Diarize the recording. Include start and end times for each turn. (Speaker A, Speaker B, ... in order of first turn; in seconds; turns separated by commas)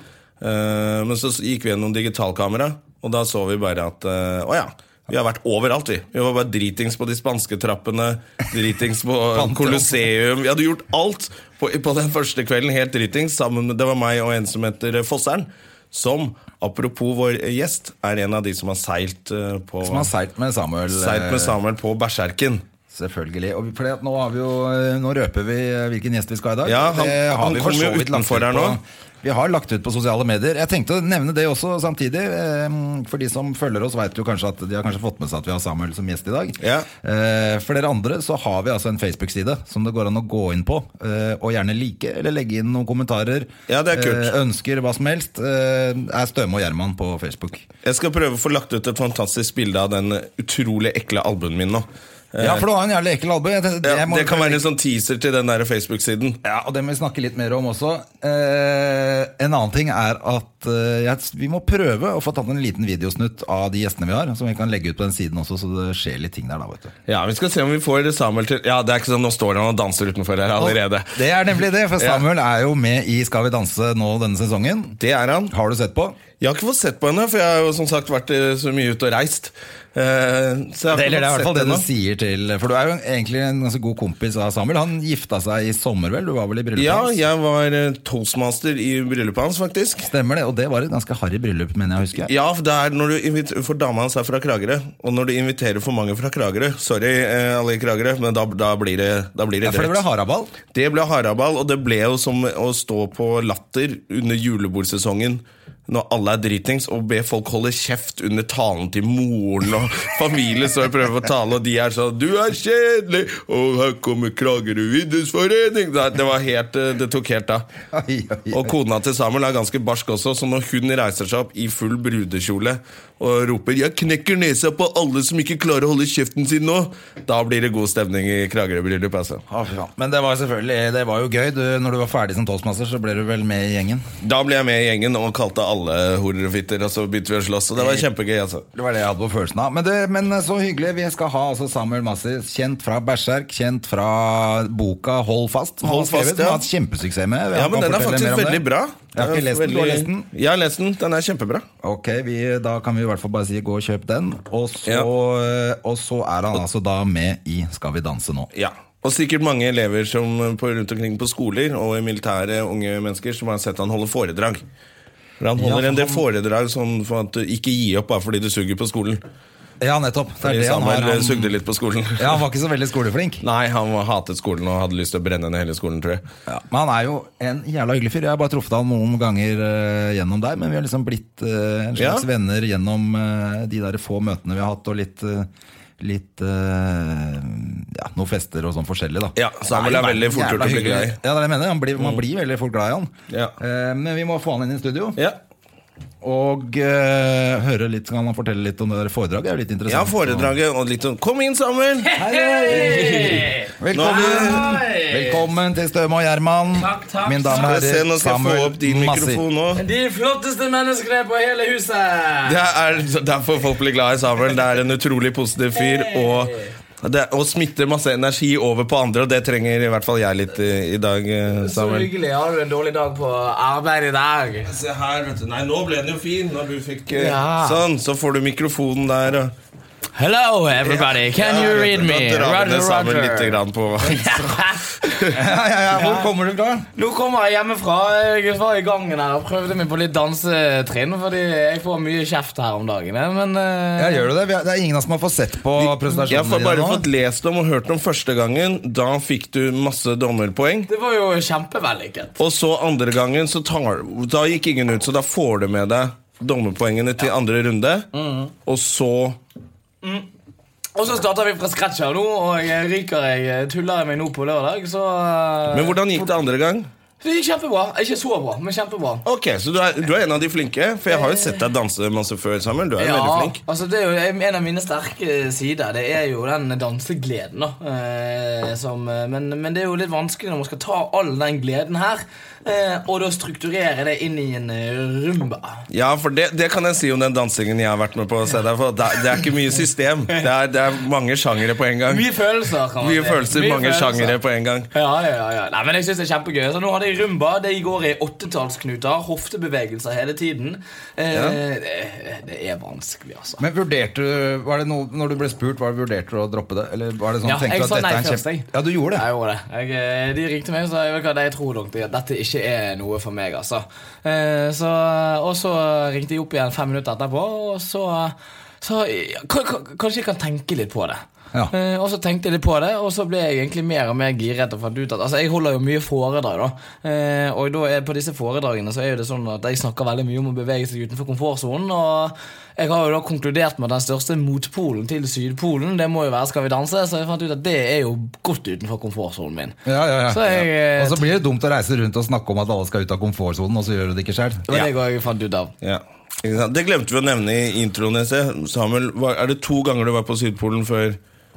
Speaker A: 0.4-20.1, Speaker B: 9.3-10.0, Speaker B: 19.8-21.6, Speaker A: 20.9-22.6, Speaker B: 22.9-47.7, Speaker A: 26.6-28.8, Speaker A: 36.6-36.9, Speaker A: 43.7-44.3, Speaker A: 47.8-52.6, Speaker B: 52.4-54.6, Speaker A: 53.8-56.4, Speaker B: 56.4-66.9, Speaker A: 67.1-71.1, Speaker B: 70.6-75.0, Speaker A: 72.0-72.2, Speaker A: 75.0-75.5, Speaker B: 75.5-76.2, Speaker A: 76.4-81.8, Speaker B: 80.9-87.2, Speaker A: 86.8-90.1, Speaker B: 90.0-92.3, Speaker A: 92.2-100.0, Speaker B: 99.6-100.5, Speaker A: 100.7-117.7, Speaker B: 117.9-118.7, Speaker A: 118.5-129.4, Speaker B: 129.5-134.1, Speaker A: 134.2-138.7, Speaker B: 137.8-138.1, Speaker B: 138.7-150.3, Speaker A: 145.8-146.7, Speaker A: 147.5-151.7, Speaker B: 151.8-158.5, Speaker A: 158.5-164.6, Speaker A: 165.4-169.2, Speaker B: 165.6-166.2, Speaker B: 169.8-171.5, Speaker A: 170.4-172.4, Speaker B: 172.2-173.4, Speaker A: 173.4-176.2, Speaker B: 176.5-195.2, Speaker A: 182.0-182.2, Speaker A: 189.4-191.2, Speaker A: 192.0-192.2, Speaker B: 196.2-200.5, Speaker A: 199.9-203.4, Speaker C: 202.0-205.4, Speaker B: 202.2-209.4, Speaker A: 203.9-204.8, Speaker C: 206.8-207.7, Speaker A: 207.5-209.8, Speaker C: 209.8-212.6, Speaker A: 212.5-222.1, Speaker C: 215.8-216.7, Speaker C: 221.6-224.7, Speaker A: 224.7-229.5, Speaker C: 227.1-227.8, Speaker C: 230.2-235.1, Speaker A: 230.8-235.4, Speaker B: 235.3-236.9, Speaker C: 235.9-236.3, Speaker C: 236.9-244.3, Speaker B: 244.0-247.1, Speaker A: 245.8-250.9, Speaker C: 250.9-252.4, Speaker A: 252.4-258.1, Speaker C: 258.1-258.5, Speaker A: 258.6-259.4, Speaker C: 260.9-266.3, Speaker A: 265.7-266.9, Speaker C: 267.2-269.2, Speaker A: 269.2-273.6, Speaker C: 271.1-271.6, Speaker C: 273.0-285.8, Speaker A: 285.9-292.3, Speaker C: 292.1-294.4, Speaker A: 293.0-294.9, Speaker C: 294.9-303.6, Speaker A: 301.3-301.6, Speaker B: 303.6-309.2, Speaker C: 307.4-339.8, Speaker B: 339.9-344.8, Speaker C: 340.3-341.3, Speaker C: 344.7-345.7, Speaker A: 345.8-351.2